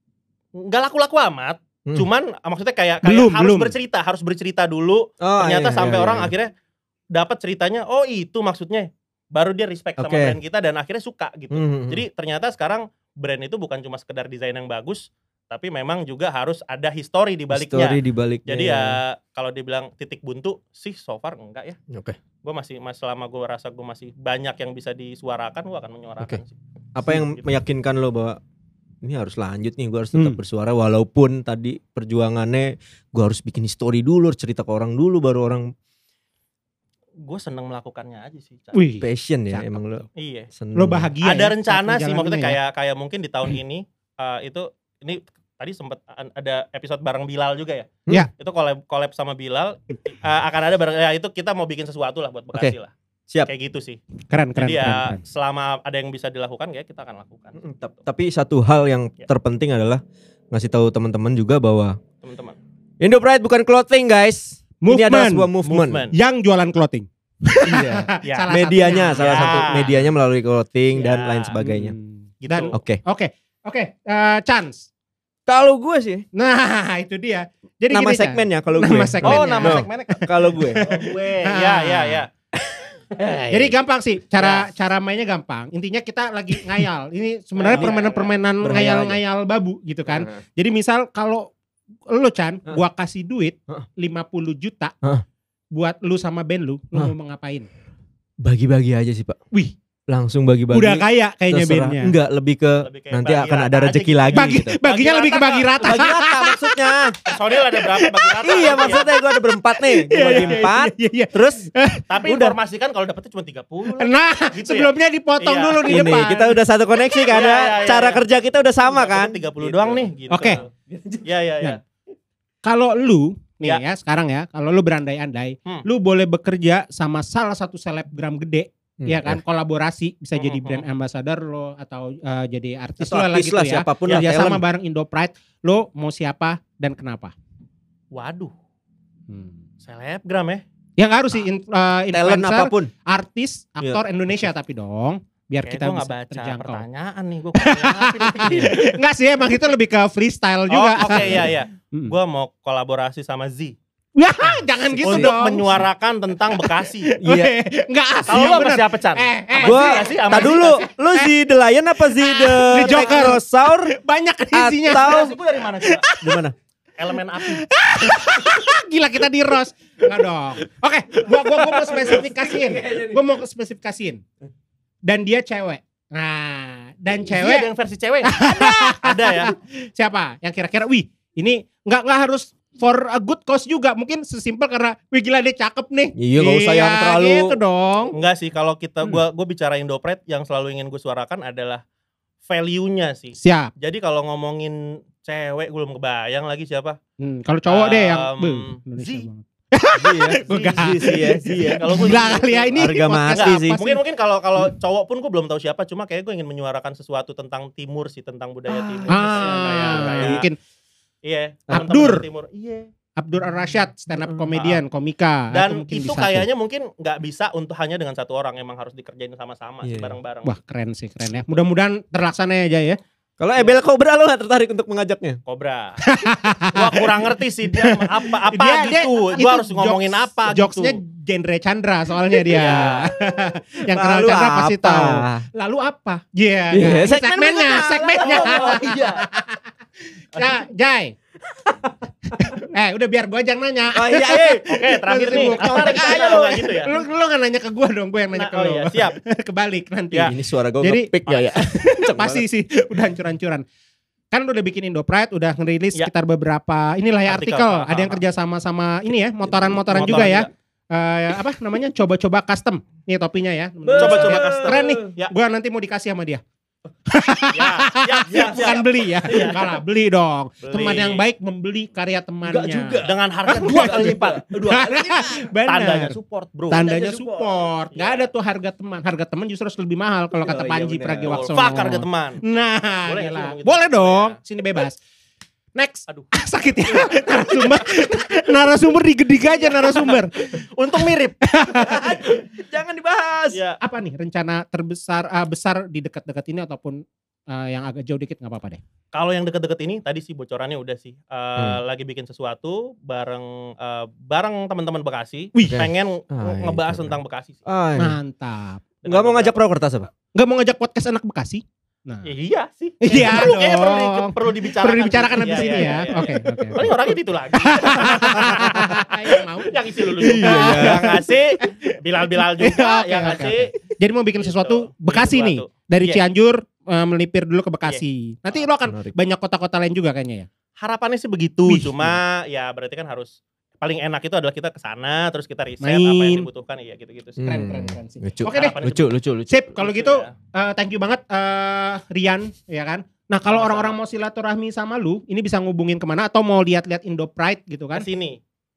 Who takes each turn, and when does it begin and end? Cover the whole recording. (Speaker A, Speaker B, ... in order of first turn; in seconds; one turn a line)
Speaker A: 0.6-6.5
Speaker B: 3.0-3.7
Speaker C: 5.2-6.3
Speaker A: 7.1-21.8
Speaker C: 10.0-10.3
Speaker C: 11.5-12.0
Speaker C: 17.5-19.0
Speaker C: 21.9-22.2
Speaker A: 22.4-27.5
Speaker C: 26.9-28.4
Speaker C: 29.0-35.7
Speaker B: 30.1-30.4
Speaker A: 37.2-38.8
Speaker B: 38.7-40.0
Speaker C: 39.0-41.1
Speaker A: 40.2-40.5
Speaker B: 40.8-42.6
Speaker A: 41.2-52.9
Speaker A: 53.4-54.0
Speaker B: 54.3-55.2
Speaker A: 54.5-57.6
Speaker C: 57.5-62.0
Speaker A: 62.2-62.6
Speaker C: 63.0-66.1
Speaker B: 64.8-65.5
Speaker A: 65.6-66.1
Speaker B: 66.1-69.9
Speaker C: 67.7-71.9
Speaker A: 68.2-68.5
Speaker A: 69.2-70.0
Speaker A: 70.9-71.6
Speaker B: 71.6-74.9
Speaker A: 72.4-72.8
Speaker C: 72.7-73.0
Speaker C: 75.5-76.2
Speaker B: 76.3-82.2
Speaker C: 77.9-80.8
Speaker A: 79.2-82.3
Speaker C: 82.7-83.8
Speaker B: 83.5-91.5
Speaker A: 84.4-84.7
Speaker A: 87.5-88.4
Speaker C: 87.7-88.0
Speaker C: 88.6-89.2
Speaker B: 92.1-94.9
Speaker B: 95.8-97.7
Speaker C: 98.4-99.4
Speaker C: 100.1-104.8
Speaker B: 100.7-102.1
Speaker A: 102.8-105.9
Speaker B: 104.3-106.7
Speaker C: 105.8-107.2
Speaker A: 107.3-109.1
Speaker B: 107.7-109.2
Speaker C: 108.4-111.7
Speaker B: 109.8-112.1
Speaker A: 110.2-110.6
Speaker A: 112.1-116.3
Speaker C: 112.2-112.5
Speaker B: 114.0-116.6
Speaker C: 115.8-121.2
Speaker A: 117.3-118.2
Speaker A: 118.8-120.7
Speaker B: 120.3-120.6
Speaker A: 121.2-121.8
Speaker B: 122.6-137.3
Speaker C: 129.0-129.4
Speaker A: 130.3-130.8
Speaker C: 133.0-134.6
Speaker A: 138.1-138.5
Speaker B: 139.3-139.5
Speaker A: 139.8-140.6
Speaker B: 141.0-146.8
Speaker C: 142.1-142.9
Speaker A: 145.6-148.9
Speaker B: 147.6-152.1
Speaker C: 148.4-148.7
Speaker A: 150.7-153.8
Speaker C: 151.1-151.5
Speaker B: 154.2-155.8
Speaker C: 154.9-155.4
Speaker A: 155.0-157.1
Speaker B: 156.6-161.3
Speaker C: 157.2-157.5
Speaker A: 158.3-160.8
Speaker C: 159.6-163.9
Speaker B: 162.2-165.2
Speaker A: 162.8-163.3
Speaker C: 164.5-165.3
Speaker A: 164.9-166.1
Speaker B: 165.8-166.4
Speaker C: 166.2-166.5
Speaker A: 167.0-167.7
Speaker B: 167.4-174.2
Speaker C: 171.2-173.2
Speaker B: 175.0-177.7
Speaker A: 177.2-179.5
Speaker B: 178.2-188.1
Speaker C: 186.2-187.6
Speaker A: 188.1-191.8
Speaker A: 192.5-197.0
Speaker B: 193.4-193.7
Speaker B: 197.2-204.0
Speaker A: 197.7-199.3
Speaker C: 200.0-203.8
Speaker A: 200.4-210.5
Speaker C: 208.7-210.4
Speaker B: 209.1-210.6
Speaker A: 211.2-212.9
Speaker B: 211.7-212.2
Speaker B: 213.2-216.4
Speaker A: 214.5-214.8
Speaker A: 215.5-220.5
Speaker C: 219.8-220.2
Speaker B: 220.4-223.0
Speaker C: 223.4-225.4
Speaker A: 225.4-226.0
Speaker B: 226.1-227.0
Speaker A: 226.7-231.0
Speaker B: 227.8-239.7
Speaker C: 232.5-235.4
Speaker A: 232.5-233.1
Speaker C: 236.7-239.2
Speaker A: 238.4-239.0
Speaker B: 240.3-241.1
Speaker C: 241.6-242.5
Speaker B: 242.4-253.6
Speaker C: 243.9-246.8
Speaker A: 244.7-246.9
Speaker A: 248.3-249.2
Speaker C: 250.3-252.4
Speaker B: 254.3-266.4
Speaker A: 257.3-258.2
Speaker C: 259.6-260.4
Speaker A: 259.9-260.5
Speaker C: 263.8-265.1
Speaker A: 264.0-265.3
Speaker B: 267.1-276.2
Speaker A: 267.5-269.8
Speaker C: 268.3-268.8
Speaker A: 270.6-271.2
Speaker C: 272.4-275.5
Speaker A: 273.0-274.8
Speaker A: 275.7-276.9
Speaker B: 276.7-285.0
Speaker C: 276.7-277.6
Speaker A: 277.9-278.3
Speaker C: 280.4-282.0
Speaker A: 281.2-282.4
Speaker A: 283.0-284.4
Speaker B: 285.8-292.3
Speaker A: 286.9-287.9
Speaker A: 289.5-291.4
Speaker C: 291.6-293.6
Speaker A: 293.5-293.8
Speaker B: 293.8-298.8
Speaker A: 299.1-307.6
Speaker B: 305.5-305.8
Speaker C: 305.7-308.2
Speaker B: 308.0-308.8
Speaker A: 309.0-309.5
Speaker C: 309.1-310.1
Speaker B: 310.3-312.3
Speaker A: 312.2-323.7
Speaker B: 313.0-316.9
Speaker B: 317.6-330.5
Speaker C: 320.2-321.2
Speaker A: 324.3-326.2
Speaker A: 327.9-328.6
Speaker C: 328.9-329.1
Speaker A: 330.8-337.4
Speaker B: 331.7-332.1
Speaker B: 335.8-336.5
Speaker C: 337.4-339.6
Speaker B: 337.4-338.8
Speaker A: 338.4-339.1
Speaker B: 339.5-348.1
Speaker A: 339.8-340.3
Speaker A: 343.5-344.0
Speaker A: 347.9-348.4